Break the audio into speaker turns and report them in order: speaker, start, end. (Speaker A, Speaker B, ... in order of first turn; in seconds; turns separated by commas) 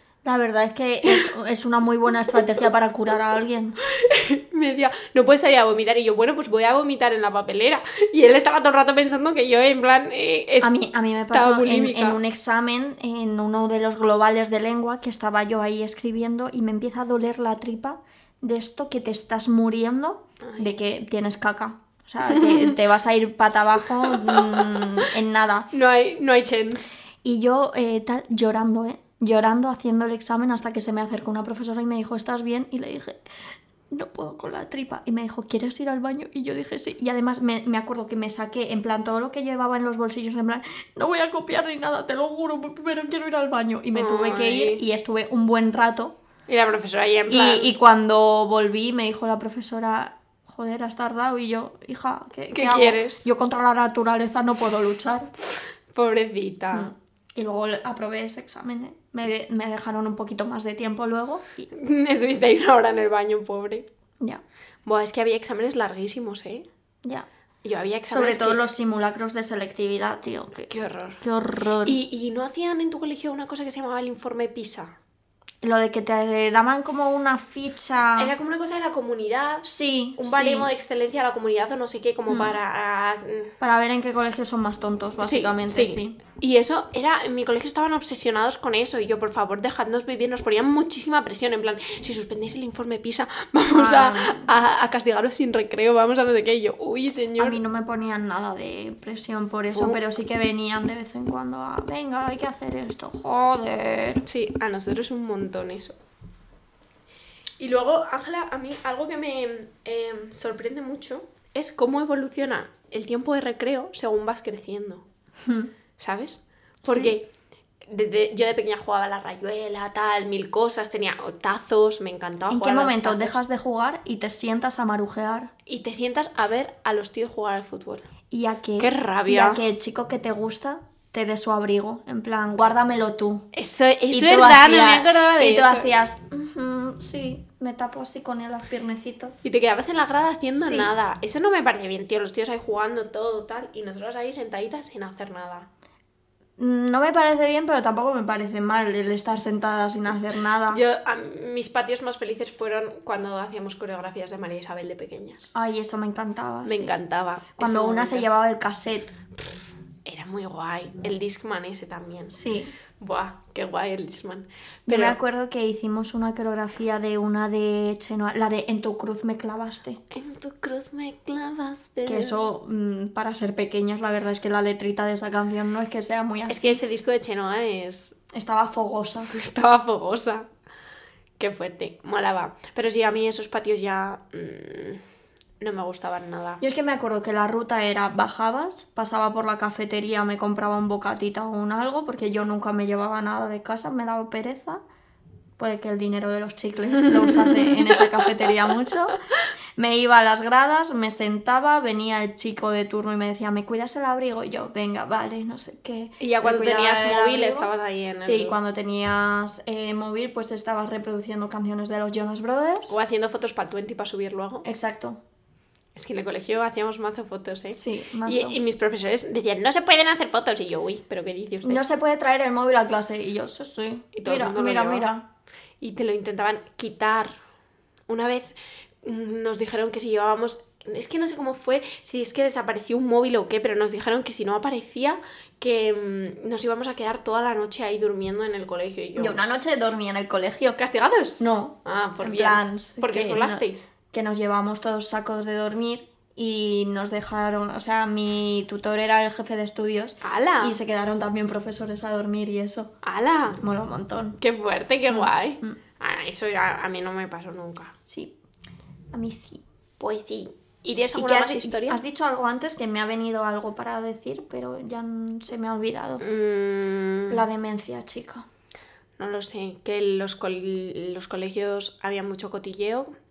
Speaker A: 0.2-3.8, Speaker B: 3.9-10.7, Speaker A: 10.6-25.7, Speaker B: 11.3-12.2, Speaker B: 20.4-20.7, Speaker B: 22.2-22.8, Speaker B: 24.2-24.9, Speaker B: 25.7-27.0, Speaker A: 27.2-33.2, Speaker A: 33.9-46.2, Speaker B: 43.9-44.8, Speaker B: 46.5-47.7, Speaker A: 47.3-55.3, Speaker B: 52.5-53.3, Speaker B: 55.9-56.9, Speaker A: 56.7-61.7, Speaker B: 61.7-63.9, Speaker B: 64.8-66.7, Speaker B: 67.6-68.6, Speaker A: 68.1-72.0, Speaker B: 70.7-71.2, Speaker B: 71.8-75.0, Speaker A: 75.6-78.3, Speaker B: 78.2-83.5, Speaker A: 79.7-80.7, Speaker A: 82.3-82.6, Speaker A: 83.6-86.2, Speaker B: 85.2-97.6, Speaker A: 93.7-94.5, Speaker A: 97.4-104.2, Speaker B: 99.8-100.0, Speaker B: 104.3-106.0, Speaker B: 107.6-115.0, Speaker A: 115.4-115.7, Speaker B: 116.0-117.3, Speaker A: 116.9-117.1, Speaker B: 117.8-123.4, Speaker A: 122.5-125.5, Speaker B: 125.7-128.1, Speaker A: 128.3-133.5, Speaker B: 128.8-129.6, Speaker B: 133.5-135.9, Speaker A: 134.1-139.4, Speaker B: 139.4-145.7, Speaker A: 140.6-140.9, Speaker A: 146.6-150.8, Speaker B: 150.7-155.5, Speaker A: 155.5-156.9, Speaker B: 156.7-158.3, Speaker A: 157.6-159.2, Speaker B: 160.1-162.4, Speaker A: 162.3-162.8, Speaker B: 163.0-165.2, Speaker A: 164.9-170.0, Speaker B: 170.1-172.4, Speaker A: 172.1-176.8, Speaker B: 176.5-178.2, Speaker A: 178.3-179.3, Speaker B: 179.3-180.5, Speaker B: 181.4-185.0, Speaker B: 185.6-186.6, Speaker A: 186.6-194.8, Speaker A: 195.6-199.2, Speaker B: 197.0-198.5, Speaker A: 199.8-207.7, Speaker B: 206.2-208.6, Speaker A: 208.2-213.0, Speaker B: 212.9-214.7, Speaker A: 214.7-215.2, Speaker B: 215.9-221.9, Speaker A: 217.7-218.6, Speaker A: 221.6-225.2, Speaker B: 224.2-225.1, Speaker B: 225.8-227.3, Speaker B: 228.1-239.4, Speaker A: 239.2-240.8, Speaker B: 240.8-243.9, Speaker A: 241.4-252.9, Speaker B: 250.2-250.8, Speaker B: 253.0-253.6, Speaker A: 253.6-254.4, Speaker B: 254.4-257.9, Speaker A: 255.1-255.8, Speaker A: 258.1-258.3, Speaker A: 259.1-259.6, Speaker B: 260.0-262.0, Speaker A: 261.1-266.2, Speaker B: 266.2-267.4, Speaker A: 267.3-268.5, Speaker B: 269.2-273.1